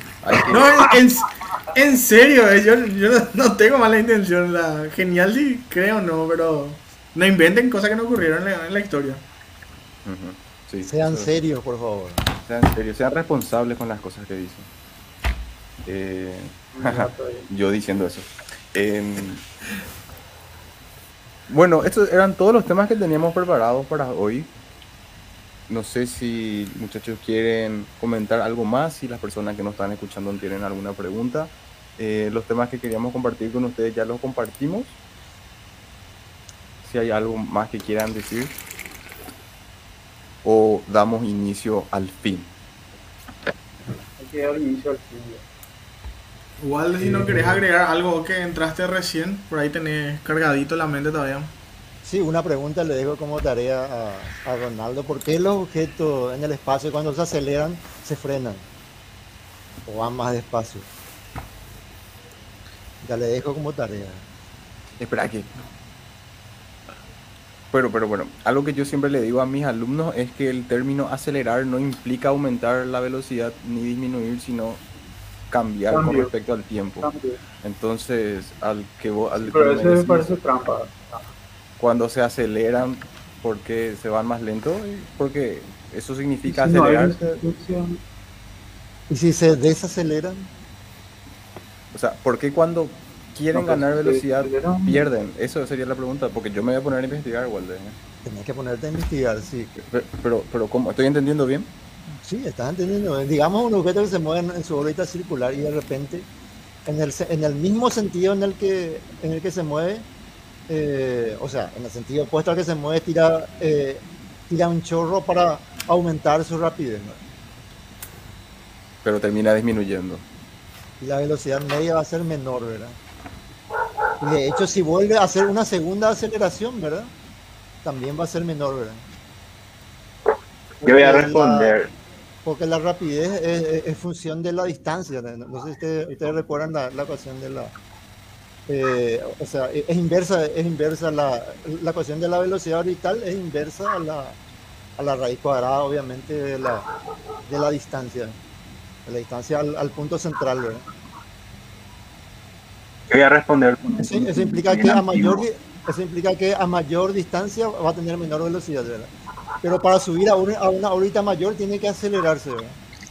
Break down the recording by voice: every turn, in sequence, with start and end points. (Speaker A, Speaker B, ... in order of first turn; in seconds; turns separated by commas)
Speaker A: 0.2-0.9, Speaker B: 0.5-9.2, Speaker A: 10.1-11.3, Speaker C: 10.8-12.2, Speaker A: 12.4-14.7, Speaker A: 15.9-19.4, Speaker D: 16.7-17.5, Speaker A: 21.5-24.5, Speaker A: 25.7-35.0, Speaker A: 36.8-38.5, Speaker A: 40.4-42.5, Speaker D: 44.2-45.4, Speaker B: 46.6-51.5, Speaker C: 47.1-47.6, Speaker C: 52.0-58.6, Speaker C: 59.9-60.9, Speaker C: 63.0-64.2, Speaker A: 65.0-65.5, Speaker A: 67.7-74.8, Speaker A: 75.5-77.1, Speaker D: 75.9-76.3, Speaker D: 77.0-77.4, Speaker A: 77.6-80.3, Speaker D: 79.4-81.3, Speaker A: 81.8-87.4, Speaker D: 86.5-88.0, Speaker C: 89.1-90.5, Speaker A: 91.9-98.0, Speaker D: 93.5-95.1, Speaker C: 98.2-99.7, Speaker A: 99.8-101.7, Speaker C: 102.2-106.3, Speaker C: 106.9-110.1, Speaker C: 110.7-117.2, Speaker A: 119.0-120.2, Speaker C: 121.0-123.0, Speaker C: 124.2-127.1, Speaker C: 127.8-129.0, Speaker C: 130.8-131.8, Speaker E: 130.8-131.9, Speaker C: 132.4-137.7, Speaker C: 138.7-144.4, Speaker C: 145.0-146.9, Speaker C: 147.5-148.4, Speaker C: 149.1-150.9, Speaker E: 153.1-155.4, Speaker C: 153.9-159.1, Speaker C: 159.6-162.8